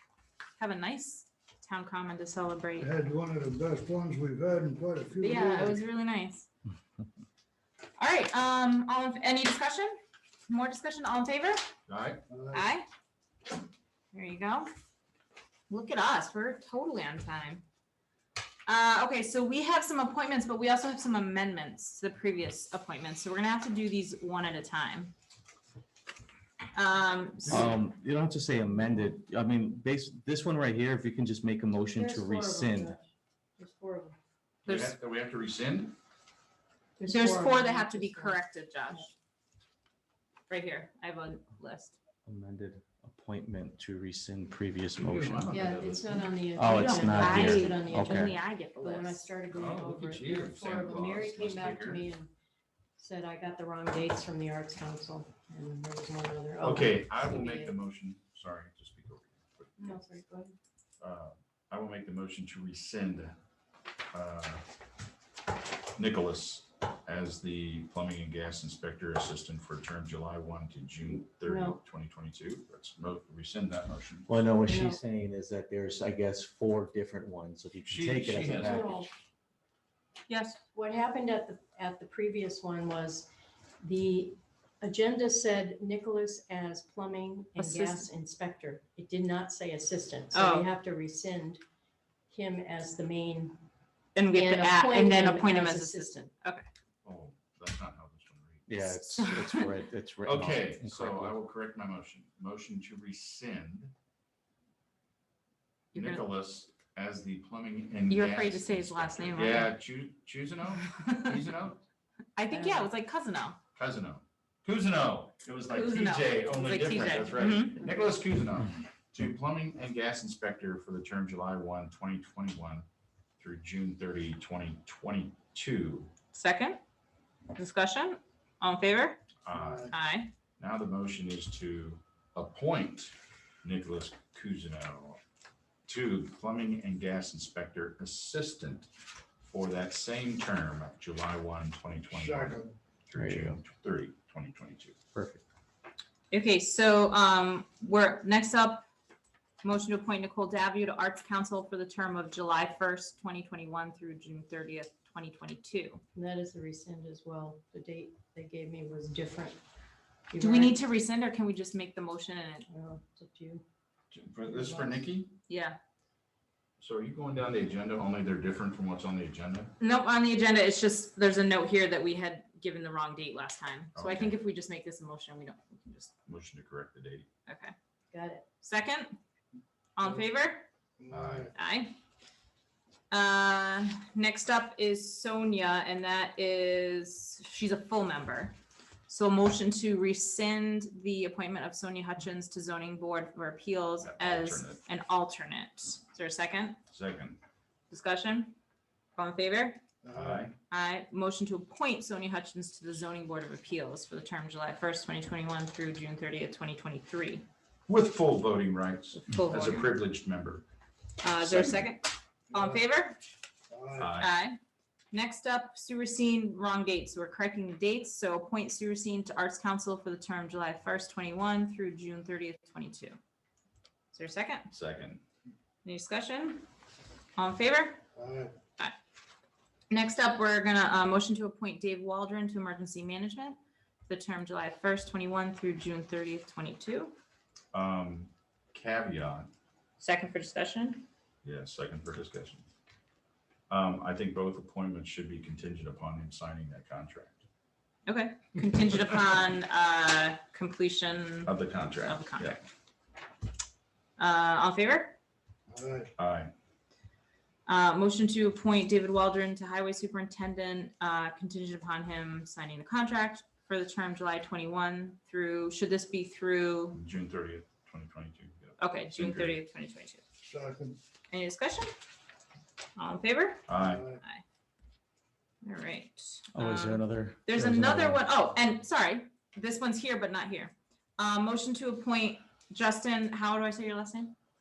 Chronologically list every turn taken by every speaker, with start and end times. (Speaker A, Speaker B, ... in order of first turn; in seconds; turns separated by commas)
Speaker A: 0.6-3.0, Speaker B: 2.8-5.7, Speaker A: 5.2-6.5, Speaker A: 8.0-10.0, Speaker A: 10.5-11.6, Speaker C: 11.9-12.2, Speaker B: 12.3-12.6, Speaker A: 12.5-12.8, Speaker A: 14.1-14.7, Speaker A: 15.7-17.6, Speaker A: 18.7-25.1, Speaker A: 26.7-27.8, Speaker C: 27.5-27.8, Speaker D: 27.5-33.0, Speaker E: 31.9-34.2, Speaker A: 34.6-35.0, Speaker C: 34.6-35.9, Speaker E: 37.0-39.0, Speaker A: 37.1-39.1, Speaker A: 40.5-42.0, Speaker D: 42.2-45.6, Speaker C: 45.0-46.4, Speaker E: 45.5-52.3, Speaker D: 46.5-48.4, Speaker A: 46.7-49.2, Speaker C: 49.5-52.0, Speaker E: 53.0-57.7, Speaker C: 56.6-60.0, Speaker E: 59.8-60.5, Speaker C: 61.0-63.4, Speaker C: 64.1-64.6, Speaker C: 66.0-74.3, Speaker E: 71.4-71.8, Speaker D: 74.3-78.9, Speaker E: 74.7-75.0, Speaker C: 77.8-79.0, Speaker E: 78.4-79.1, Speaker A: 80.3-80.6, Speaker E: 80.7-83.3, Speaker E: 83.8-91.6, Speaker A: 87.6-88.1, Speaker A: 90.3-90.7, Speaker E: 92.3-93.6, Speaker A: 94.2-96.7, Speaker E: 94.3-96.3, Speaker C: 97.0-98.7, Speaker D: 98.7-101.4, Speaker A: 98.8-99.7, Speaker C: 100.2-103.9, Speaker C: 105.9-111.8, Speaker A: 105.9-106.2, Speaker A: 108.1-109.7, Speaker A: 110.8-111.4, Speaker A: 112.4-113.6, Speaker E: 112.5-112.9, Speaker C: 113.8-122.9, Speaker A: 115.7-117.8, Speaker C: 123.4-126.1, Speaker A: 126.3-126.8, Speaker A: 127.5-129.2, Speaker C: 129.4-129.9, Speaker B: 129.6-129.8, Speaker A: 129.9-130.3, Speaker C: 130.6-135.2, Speaker C: 135.9-138.9, Speaker C: 139.4-145.0, Speaker B: 142.2-142.7, Speaker D: 143.2-143.6, Speaker D: 145.1-145.4, Speaker A: 146.3-148.9, Speaker A: 149.6-156.0, Speaker E: 156.2-159.6, Speaker E: 160.3-160.8, Speaker A: 160.4-162.7, Speaker E: 162.7-163.6, Speaker C: 164.1-165.3, Speaker E: 164.5-165.0, Speaker A: 165.5-165.8, Speaker C: 166.8-169.7, Speaker A: 169.8-176.1, Speaker C: 173.9-174.4, Speaker C: 176.3-177.3, Speaker A: 177.5-177.7, Speaker E: 178.1-178.4, Speaker A: 178.6-179.1, Speaker A: 180.0-180.7, Speaker B: 181.0-181.4, Speaker C: 181.1-181.5, Speaker A: 181.6-182.0, Speaker A: 183.1-188.6, Speaker A: 189.1-196.8, Speaker C: 194.1-194.8, Speaker C: 196.9-197.4, Speaker A: 197.9-198.6, Speaker A: 199.2-199.8, Speaker C: 200.1-200.5, Speaker A: 200.7-207.4, Speaker C: 207.9-210.7, Speaker A: 209.1-209.9, Speaker A: 211.2-213.2, Speaker C: 211.4-211.9, Speaker B: 213.7-214.1, Speaker C: 214.0-214.3, Speaker A: 214.1-214.6, Speaker A: 215.1-223.2, Speaker A: 224.1-224.7, Speaker C: 224.7-225.2, Speaker A: 225.8-226.7, Speaker A: 227.4-228.0, Speaker B: 228.2-228.5, Speaker A: 229.9-233.6, Speaker A: 234.1-237.1, Speaker C: 237.7-239.5, Speaker A: 240.0-241.1, Speaker C: 241.4-242.7, Speaker C: 243.7-247.4, Speaker A: 248.1-252.6, Speaker C: 251.4-252.6, Speaker A: 254.2-255.2, Speaker B: 255.7-256.1, Speaker C: 256.2-256.5, Speaker A: 257.7-267.0, Speaker C: 266.9-269.6, Speaker A: 268.8-270.2, Speaker B: 270.4-271.0, Speaker A: 271.3-271.9, Speaker A: 272.9-273.7, Speaker C: 273.7-274.0, Speaker B: 273.9-274.2, Speaker A: 275.6-284.3, Speaker D: 276.5-278.2